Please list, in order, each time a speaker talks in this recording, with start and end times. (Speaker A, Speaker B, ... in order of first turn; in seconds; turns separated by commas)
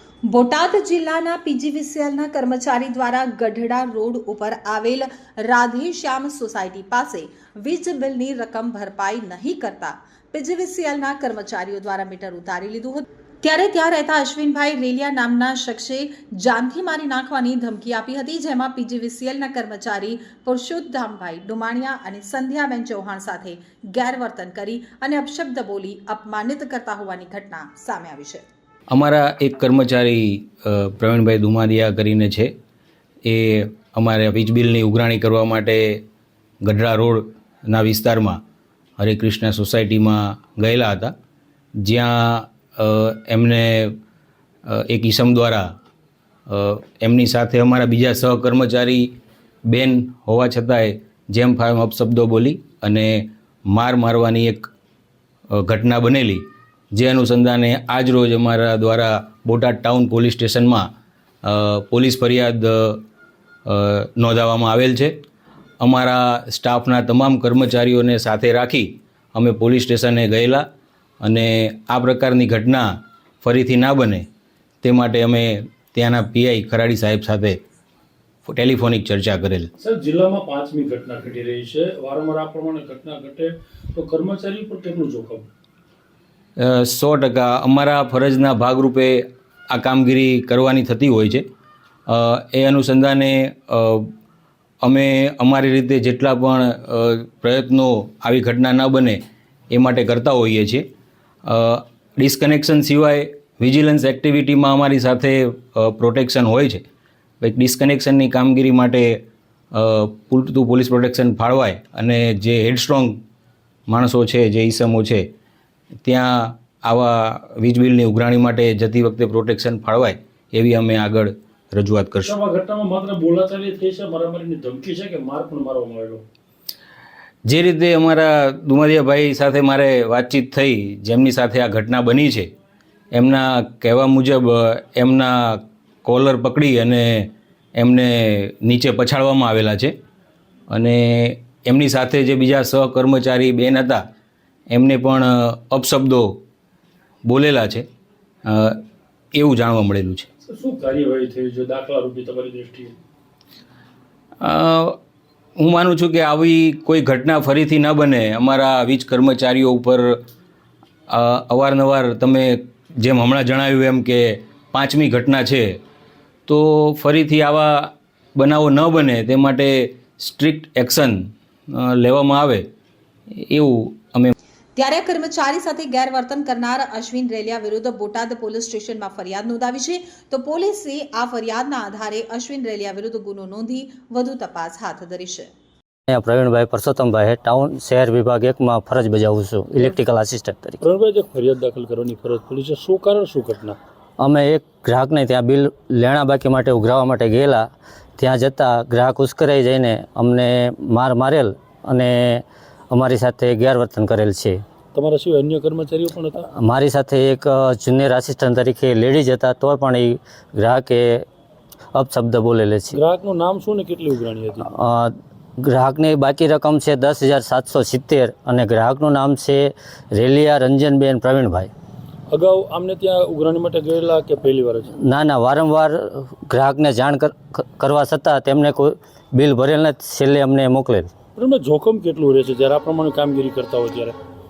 Speaker A: 0.3-28.4, Speaker B: 28.9-32.5, Speaker B: 33.2-36.0, Speaker B: 36.6-38.4, Speaker B: 39.0-41.1, Speaker B: 41.8-44.0, Speaker B: 44.7-45.7, Speaker B: 46.5-49.1, Speaker B: 49.7-54.7, Speaker B: 55.5-60.8, Speaker B: 61.5-63.0, Speaker B: 63.7-65.1, Speaker B: 65.8-70.6, Speaker B: 71.2-72.9, Speaker B: 73.4-74.3, Speaker B: 74.8-77.6, Speaker B: 78.5-79.7, Speaker C: 79.8-85.5, Speaker B: 86.6-91.4, Speaker B: 92.1-94.1, Speaker B: 94.8-99.2, Speaker B: 99.7-100.8, Speaker B: 101.5-106.8, Speaker B: 107.4-109.2, Speaker B: 109.7-113.2, Speaker B: 113.9-115.2, Speaker B: 116.0-122.3, Speaker C: 122.2-126.2, Speaker B: 127.5-132.5, Speaker B: 133.1-139.9, Speaker B: 140.7-144.0, Speaker B: 144.7-146.3, Speaker B: 147.3-147.9, Speaker B: 148.5-148.8, Speaker B: 149.4-150.3, Speaker C: 150.4-152.9, Speaker B: 154.4-155.0, Speaker B: 155.6-160.2, Speaker B: 161.1-165.8, Speaker B: 166.5-172.7, Speaker B: 173.5-174.3, Speaker A: 174.8-185.5, Speaker D: 186.1-190.8, Speaker C: 190.8-193.8, Speaker D: 194.2-204.6, Speaker C: 204.9-206.4, Speaker D: 206.6-211.3, Speaker D: 211.9-213.0, Speaker C: 212.9-214.7, Speaker D: 214.7-221.7, Speaker C: 222.3-224.9, Speaker D: 225.0-231.1, Speaker C: 231.4-234.2